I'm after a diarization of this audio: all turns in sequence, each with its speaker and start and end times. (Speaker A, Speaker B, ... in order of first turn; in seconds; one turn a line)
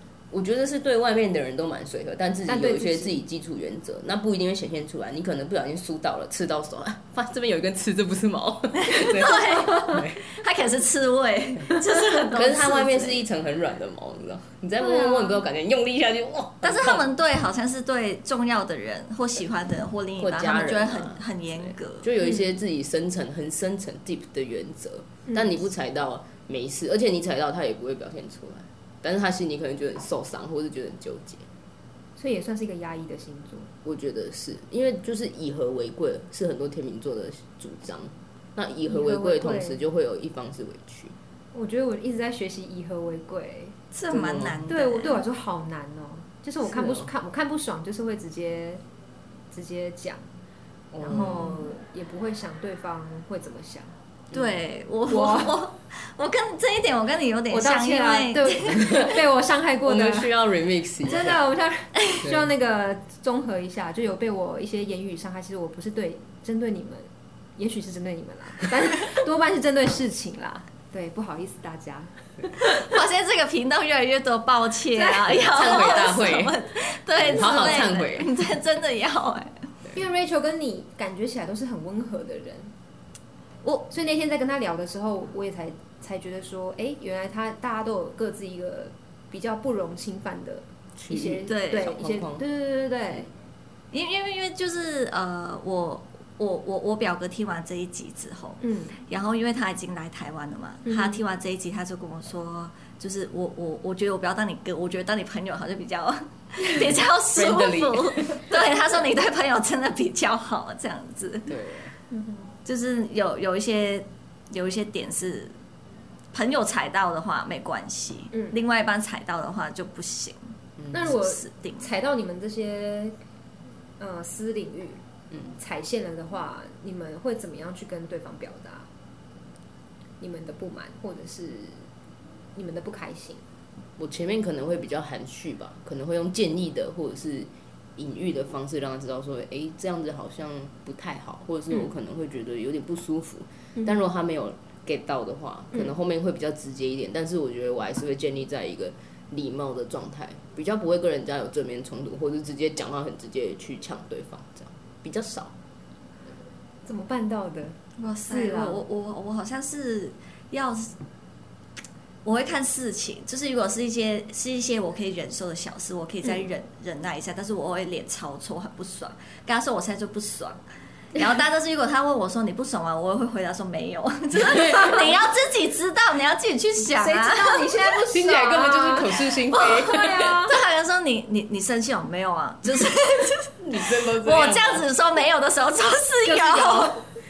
Speaker A: 0.3-10.2
Speaker B: 2.5-3.2
Speaker C: 8.8-13.2
Speaker A: 12.3-17.1
Speaker B: 14.8-15.2
Speaker C: 16.6-22.1
Speaker A: 20.2-31.4
Speaker B: 22.2-22.5
Speaker B: 25.3-25.6
Speaker B: 32.2-33.7
Speaker A: 33.8-41.1
Speaker B: 38.9-39.8
Speaker B: 41.5-43.8
Speaker C: 43.9-45.2
Speaker A: 44.1-44.6
Speaker B: 44.7-48.8
Speaker A: 46.6-47.1
Speaker B: 49.5-50.2
Speaker A: 50.9-51.6
Speaker B: 51.0-53.9
Speaker C: 51.1-51.5
Speaker A: 54.3-54.6
Speaker C: 54.3-59.0
Speaker B: 55.1-55.6
Speaker B: 57.5-60.3
Speaker A: 58.7-59.2
Speaker A: 59.8-61.4
Speaker B: 61.0-73.0
Speaker C: 62.0-62.2
Speaker C: 72.6-79.7
Speaker B: 74.9-75.6
Speaker A: 75.3-76.5
Speaker A: 77.2-78.3
Speaker B: 77.3-77.9
Speaker B: 79.9-82.7
Speaker B: 83.9-93.3
Speaker A: 91.0-92.4
Speaker C: 91.5-92.0
Speaker C: 93.9-111.5
Speaker B: 98.6-99.0
Speaker B: 100.8-101.2
Speaker A: 106.8-108.2
Speaker A: 111.5-111.9
Speaker B: 112.1-112.5
Speaker C: 112.6-115.5
Speaker C: 116.3-121.9
Speaker A: 120.8-121.1
Speaker B: 120.9-123.2
Speaker B: 124.0-125.0
Speaker B: 125.6-128.9
Speaker B: 130.2-131.9
Speaker B: 132.5-133.4
Speaker A: 134.0-155.5
Speaker B: 156.8-158.8
Speaker C: 158.0-160.9
Speaker C: 162.2-170.6
Speaker C: 171.1-177.8
Speaker A: 174.4-174.9
Speaker B: 176.9-180.6
Speaker A: 178.1-180.4
Speaker C: 179.5-187.0
Speaker A: 183.6-184.9
Speaker B: 186.2-187.0